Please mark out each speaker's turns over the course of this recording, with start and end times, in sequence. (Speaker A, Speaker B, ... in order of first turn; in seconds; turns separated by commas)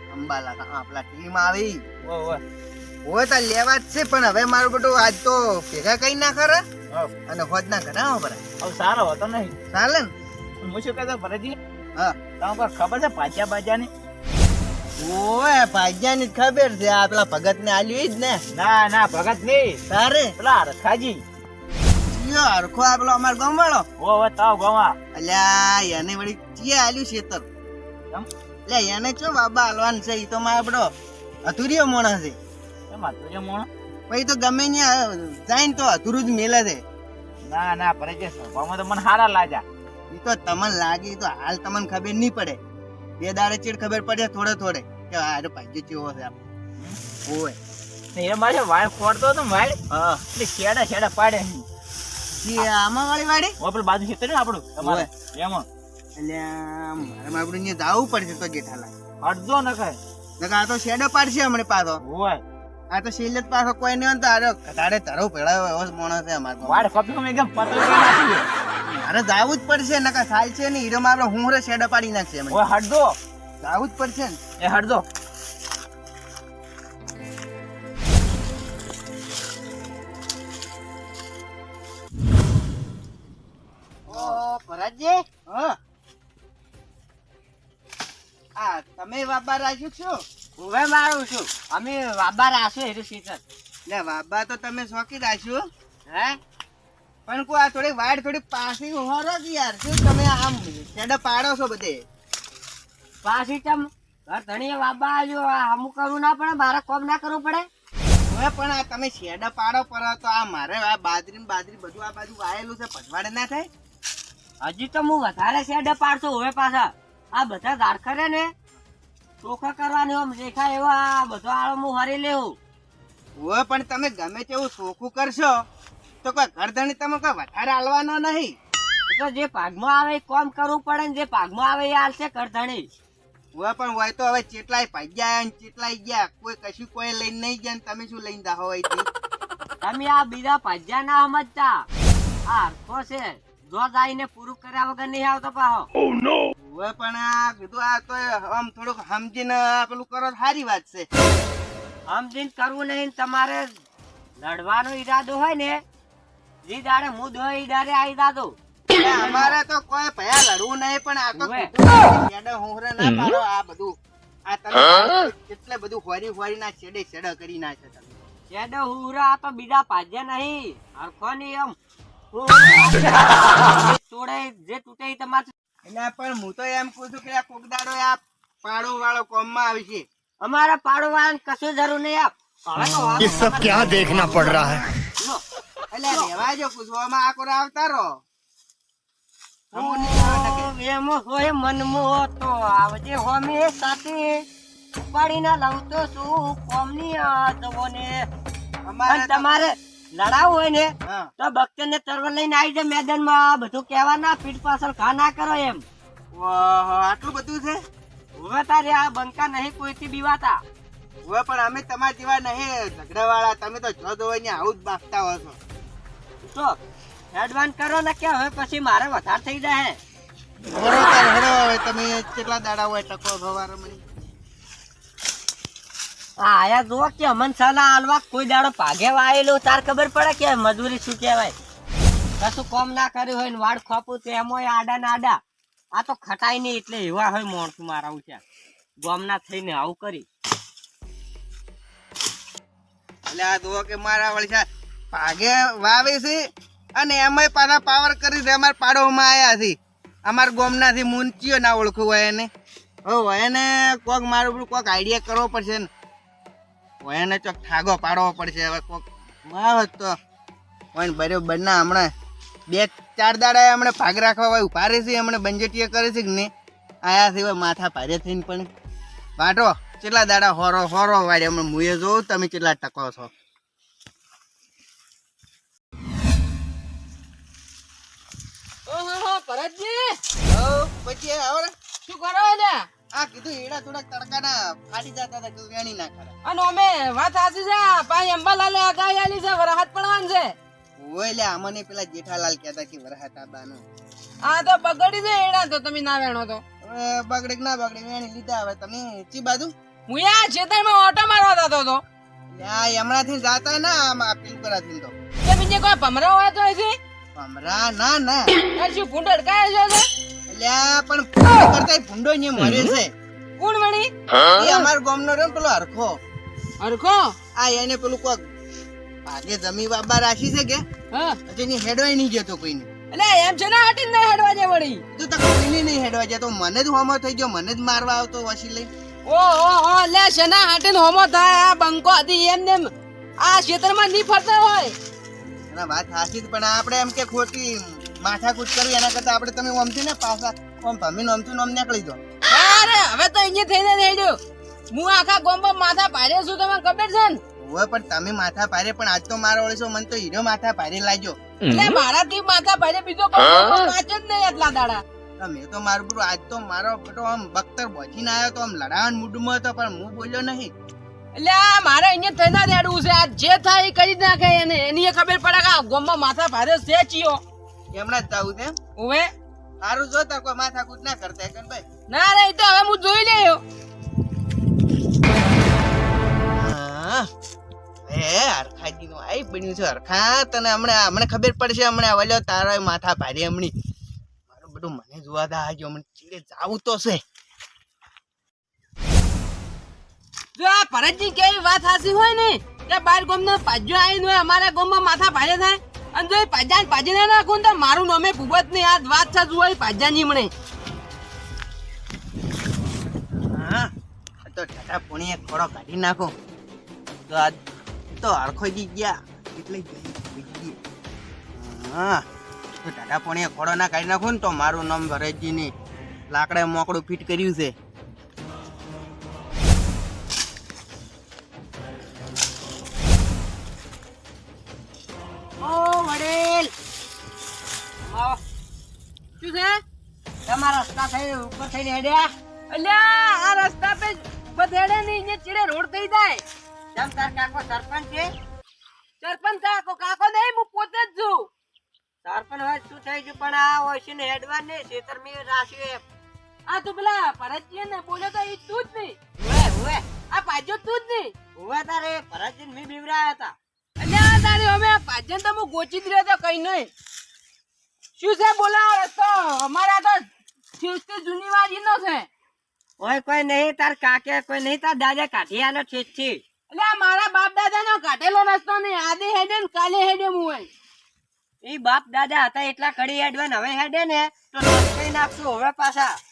Speaker A: 0.1-1.8, Speaker B: 2.0-2.4, Speaker A: 3.1-6.6, Speaker A: 7.3-8.4, Speaker B: 8.6-9.6, Speaker A: 9.7-10.1, Speaker B: 10.6-11.6, Speaker B: 12.4-13.9, Speaker A: 15.0-18.4, Speaker B: 18.5-19.8, Speaker A: 19.9-20.3, Speaker B: 20.4-21.2, Speaker A: 22.1-23.9, Speaker B: 24.0-25.0, Speaker A: 25.1-27.4, Speaker A: 28.7-30.9, Speaker A: 31.5-32.4, Speaker B: 32.9-33.7, Speaker A: 34.1-36.8, Speaker B: 37.5-39.6, Speaker A: 40.1-42.6, Speaker A: 43.2-46.3, Speaker A: 47.3-47.6, Speaker B: 48.1-49.8, Speaker A: 49.9-50.2, Speaker B: 50.3-51.7, Speaker A: 52.4-53.5, Speaker B: 53.6-55.7, Speaker A: 54.8-55.1, Speaker A: 56.2-58.9, Speaker B: 59.2-60.0, Speaker A: 60.4-62.0, Speaker B: 62.0-62.4, Speaker A: 62.9-66.9, Speaker B: 66.7-68.4, Speaker A: 68.9-72.6, Speaker B: 72.5-73.2, Speaker A: 73.6-74.4, Speaker B: 74.6-75.0, Speaker A: 84.1-84.4, Speaker C: 84.1-85.2, Speaker A: 85.5-85.8, Speaker A: 88.6-90.2, Speaker C: 90.6-93.4, Speaker A: 93.9-95.7, Speaker C: 96.1-96.4, Speaker A: 97.3-102.0, Speaker C: 103.2-107.7, Speaker A: 108.3-113.7, Speaker C: 114.6-118.5, Speaker C: 119.4-122.6, Speaker A: 123.4-125.5, Speaker A: 126.2-128.5, Speaker C: 129.1-132.9, Speaker A: 133.6-139.1, Speaker C: 139.8-141.9, Speaker C: 142.5-145.9, Speaker A: 146.6-151.1, Speaker C: 152.1-153.7, Speaker C: 154.4-155.8, Speaker C: 156.6-158.6, Speaker A: 159.0-163.9, Speaker C: 161.3-161.7, Speaker A: 164.5-168.2, Speaker C: 168.5-171.8, Speaker C: 172.3-175.5, Speaker A: 175.8-180.1, Speaker C: 180.4-185.4, Speaker A: 185.9-188.2, Speaker A: 189.7-190.7, Speaker C: 189.7-194.4, Speaker C: 195.0-198.3, Speaker A: 198.9-199.5, Speaker C: 199.1-205.8, Speaker A: 201.0-201.3, Speaker A: 206.3-207.8, Speaker C: 208.3-210.6, Speaker A: 211.3-215.6, Speaker C: 216.4-216.8, Speaker C: 217.3-220.0, Speaker A: 220.8-224.0, Speaker C: 226.4-231.5, Speaker C: 232.4-235.4, Speaker C: 235.9-238.4, Speaker C: 239.0-240.3, Speaker A: 243.3-246.5, Speaker A: 247.0-249.8, Speaker A: 250.3-252.5, Speaker A: 253.1-255.9, Speaker A: 257.0-260.1, Speaker A: 260.9-262.1, Speaker A: 262.7-266.5, Speaker A: 267.1-268.7, Speaker A: 269.4-273.3, Speaker D: 278.9-280.2, Speaker A: 280.5-281.7, Speaker D: 282.1-282.8, Speaker A: 283.1-286.3, Speaker D: 286.4-290.5, Speaker A: 291.0-293.8, Speaker D: 294.4-296.6, Speaker A: 296.8-299.7, Speaker D: 300.1-302.0, Speaker A: 302.5-305.1, Speaker D: 305.4-307.0, Speaker A: 307.4-308.5, Speaker D: 308.8-310.1, Speaker A: 310.5-313.1, Speaker D: 313.6-314.9, Speaker A: 314.5-316.2, Speaker D: 316.8-317.4, Speaker A: 317.6-318.4, Speaker A: 319.3-320.8, Speaker D: 321.1-321.4, Speaker A: 321.5-322.9, Speaker D: 323.1-325.0, Speaker A: 325.1-328.9, Speaker D: 329.3-332.9, Speaker D: 333.4-334.9, Speaker A: 335.7-342.2, Speaker D: 342.5-344.4, Speaker D: 344.9-347.4, Speaker A: 347.6-351.4, Speaker D: 351.7-355.0, Speaker A: 355.4-360.7, Speaker D: 361.4-367.4, Speaker A: 367.9-368.8, Speaker D: 369.0-369.3, Speaker A: 369.8-371.8, Speaker D: 372.1-373.6, Speaker A: 376.6-377.3, Speaker A: 378.1-383.7, Speaker A: 384.5-387.2, Speaker D: 390.6-400.5, Speaker A: 403.5-403.9, Speaker A: 404.5-406.3, Speaker A: 407.3-407.6, Speaker A: 408.1-410.8, Speaker A: 411.6-412.2, Speaker A: 412.8-415.7, Speaker A: 416.3-417.7, Speaker C: 425.6-426.7, Speaker C: 428.1-428.4, Speaker D: 429.4-429.8, Speaker C: 430.4-432.3, Speaker D: 432.7-436.4, Speaker C: 436.9-438.3, Speaker D: 439.2-441.5, Speaker C: 442.2-446.0, Speaker D: 446.7-449.3, Speaker C: 449.4-450.0, Speaker D: 450.3-451.3, Speaker C: 451.6-453.6, Speaker D: 454.0-456.9, Speaker D: 458.2-460.2, Speaker D: 460.8-462.3, Speaker C: 463.0-466.4, Speaker D: 466.7-470.7, Speaker C: 471.6-476.2